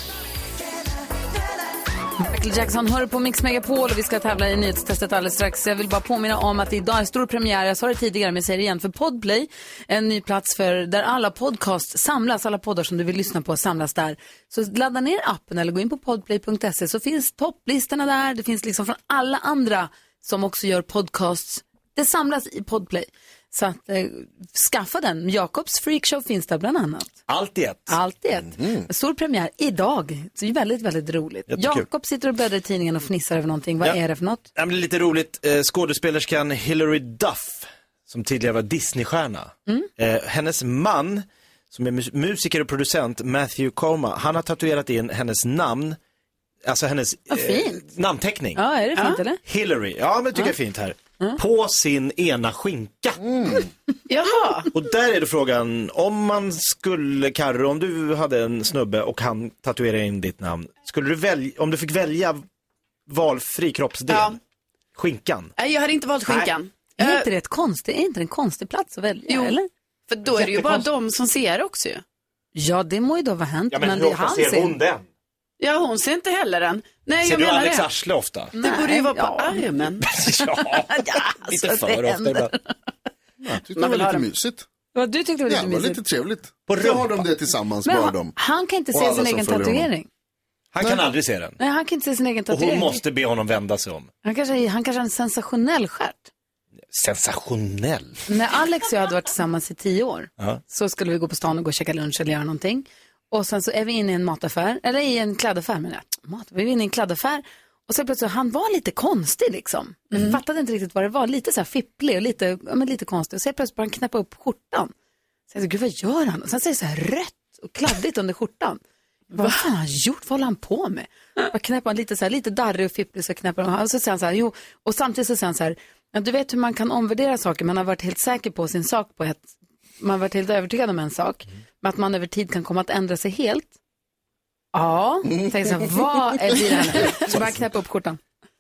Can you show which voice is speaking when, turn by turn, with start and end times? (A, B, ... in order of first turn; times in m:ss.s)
0:02.2-0:27.2 A
0:27.3-0:28.0 B
0:27.9-0:34.4 A
0:31.5-0:31.9 B
0:34.6-0:46.0 B
0:46.6-0:48.6 B
0:47.3-0:47.8 A
0:48.6-0:49.4 A
0:49.4-0:53.2 B
0:53.2-0:53.6 C
0:54.1-0:54.7 D
0:54.7-1:02.4 B
1:03.1-1:04.4 B
1:04.1-1:04.4 D
1:05.0-1:05.5 B
1:05.6-1:07.3 D
1:07.0-1:09.7 A
1:09.3-1:09.6 D
1:10.1-1:12.0 D
1:10.4-1:10.8 B
1:12.6-1:14.8 A
1:13.7-1:15.0 B
1:15.6-1:17.9 D
1:17.2-1:18.6 B
1:18.6-1:19.6 A
1:18.6-1:20.0 D
1:20.0-1:22.5 B
1:20.7-1:22.5 A
1:23.4-1:24.7 C
1:23.8-1:24.2 D
1:24.9-1:26.0 A
1:25.5-1:28.4 C
1:26.7-1:27.2 B
1:27.8-1:30.1 A
1:28.9-1:29.9 C
1:30.7-1:31.6 B
1:31.6-1:33.0 A
1:32.5-1:34.1 B
1:34.2-1:36.3 A
1:36.9-1:38.2 B
1:38.3-1:54.9 A
1:55.5-1:58.8 A
1:59.3-2:13.7 A
2:14.7-2:18.2 A